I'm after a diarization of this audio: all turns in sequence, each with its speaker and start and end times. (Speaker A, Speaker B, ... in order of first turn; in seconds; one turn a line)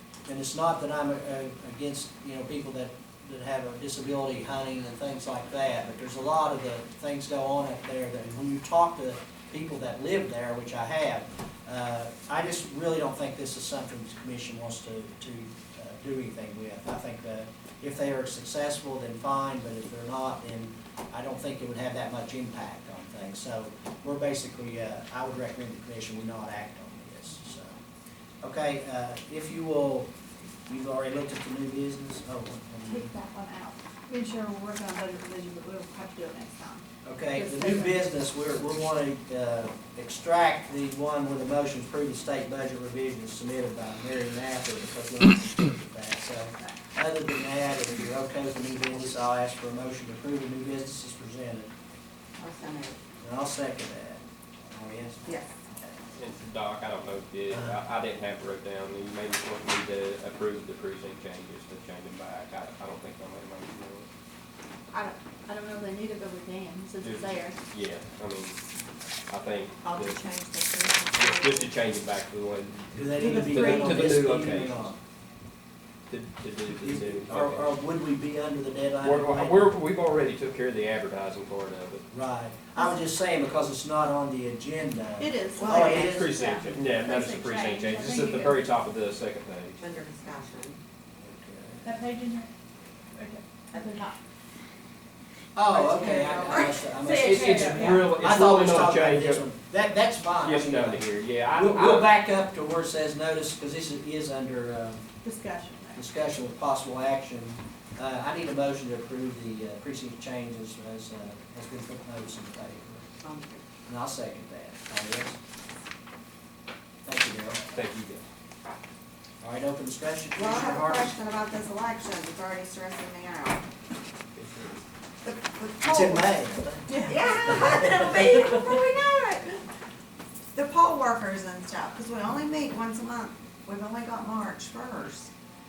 Speaker A: 0.2-27.8
Speaker A: 28.4-30.1
Speaker A: 30.7-33.1
Speaker B: 32.8-38.0
Speaker A: 37.0-51.7
Speaker C: 52.4-53.0
Speaker A: 53.2-55.9
Speaker C: 55.2-55.5
Speaker D: 56.1-64.1
Speaker A: 57.5-57.8
Speaker B: 64.9-67.6
Speaker D: 67.0-68.6
Speaker D: 69.3-70.2
Speaker C: 69.8-71.7
Speaker D: 71.1-74.9
Speaker A: 72.9-74.9
Speaker B: 73.2-74.0
Speaker D: 76.1-77.7
Speaker A: 76.8-79.7
Speaker D: 79.0-82.0
Speaker A: 82.1-86.5
Speaker B: 85.2-88.7
Speaker C: 85.6-86.1
Speaker D: 85.7-89.8
Speaker C: 89.8-90.8
Speaker A: 91.2-91.9
Speaker B: 91.8-92.5
Speaker B: 93.1-94.2
Speaker A: 95.5-105.1
Speaker C: 95.7-96.9
Speaker B: 96.8-98.1
Speaker D: 97.1-99.4
Speaker D: 100.4-102.1
Speaker B: 105.2-106.0
Speaker A: 105.9-113.0
Speaker C: 113.2-113.7
Speaker A: 113.9-115.4
Speaker A: 117.0-117.6
Speaker D: 117.7-118.2
Speaker A: 119.4-121.1
Speaker C: 120.3-123.6
Speaker D: 124.4-124.7
Speaker C: 125.2-126.4
Speaker A: 125.8-128.4
Speaker B: 126.9-127.5
Speaker C: 127.0-129.6
Speaker C: 130.5-135.3